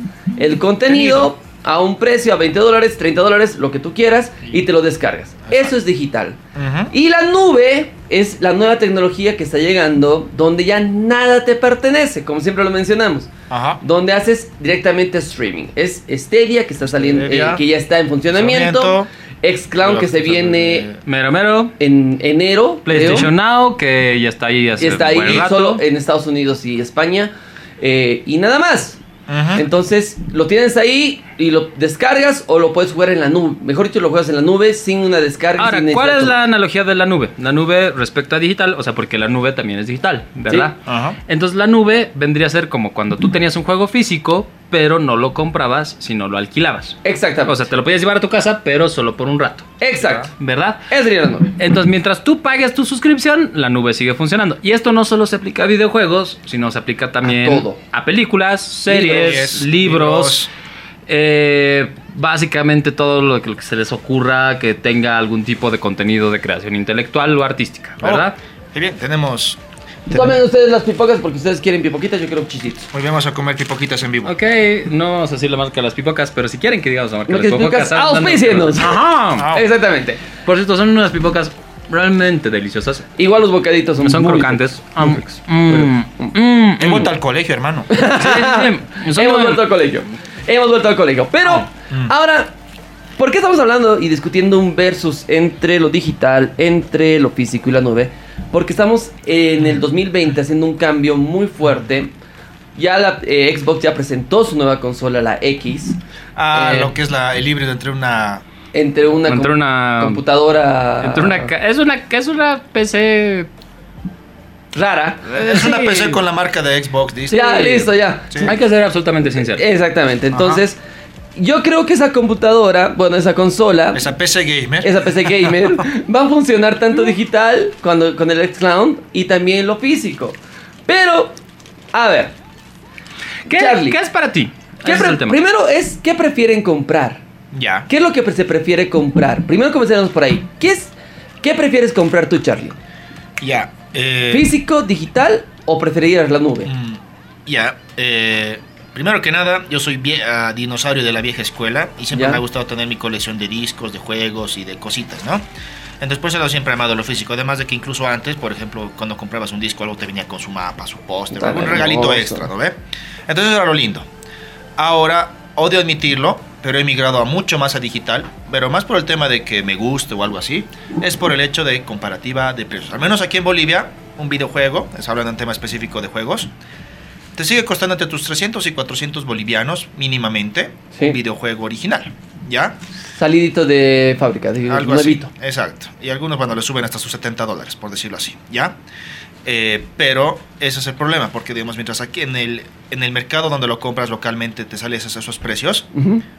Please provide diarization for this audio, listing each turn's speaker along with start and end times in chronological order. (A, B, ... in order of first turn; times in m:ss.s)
0:00.4-0:06.4 A
0:00.9-0:01.3 B
0:05.5-0:05.8 B
0:06.6-0:06.9 B
0:06.9-0:20.9 A
0:13.5-0:13.8 B
0:16.9-0:17.6 B
0:18.3-0:19.1 B
0:19.8-0:21.0 B
0:21.0-0:21.8 C
0:21.8-0:23.3 A
0:22.9-0:25.8 C
0:24.8-0:29.0 A
0:29.3-0:29.6 B
0:29.5-0:36.4 A
0:35.6-0:49.8 C
0:40.9-0:41.2 B
0:47.0-0:47.6 A
0:49.8-0:50.3 A
0:50.0-0:50.3 B
0:50.4-0:50.9 C
0:50.9-0:51.5 A
0:51.6-1:00.5 C
0:57.2-0:57.8 A
0:58.9-1:00.5 B
1:01.1-1:08.4 C
1:08.0-1:10.4 B
1:10.1-1:12.9 A
1:12.9-1:14.4 B
1:14.2-1:19.5 C
1:17.3-1:20.2 A
1:19.4-1:19.7 B
1:20.4-1:23.1 C
1:23.2-1:26.4 A
1:24.0-1:27.1 C
1:26.8-1:28.0 B
1:27.9-1:32.5 A
1:28.1-1:29.7 C
1:31.4-1:32.1 B
1:33.2-1:42.1 A
1:42.8-1:46.0 A
1:46.4-1:48.4 B
1:46.5-1:46.9 A
1:48.7-1:51.5 A
1:49.3-1:50.2 C
1:51.0-1:53.5 C
1:54.7-1:56.2 A
1:55.3-1:58.5 B
1:57.3-1:58.6 A
1:58.4-1:59.6 C
1:59.5-2:00.8 A
2:00.3-2:00.6 B
2:01.4-2:04.0 A
2:03.9-2:05.8 B
2:04.8-2:11.4 A
2:11.9-2:12.3 A
2:13.5-2:15.4 C
2:13.5-2:14.0 A
2:14.8-2:17.2 A
2:17.5-2:17.9 B
2:17.9-2:22.8 A
2:23.4-2:24.5 B
2:24.3-2:26.7 A
2:26.6-2:35.5 B
2:32.1-2:32.4 A
2:36.0-2:44.1 B
2:41.3-2:42.5 A
2:44.8-2:56.5 B
2:57.4-3:02.8 B
3:03.2-3:05.3 A
3:04.7-3:08.8 B
3:09.4-3:15.9 B
3:15.9-3:16.2 A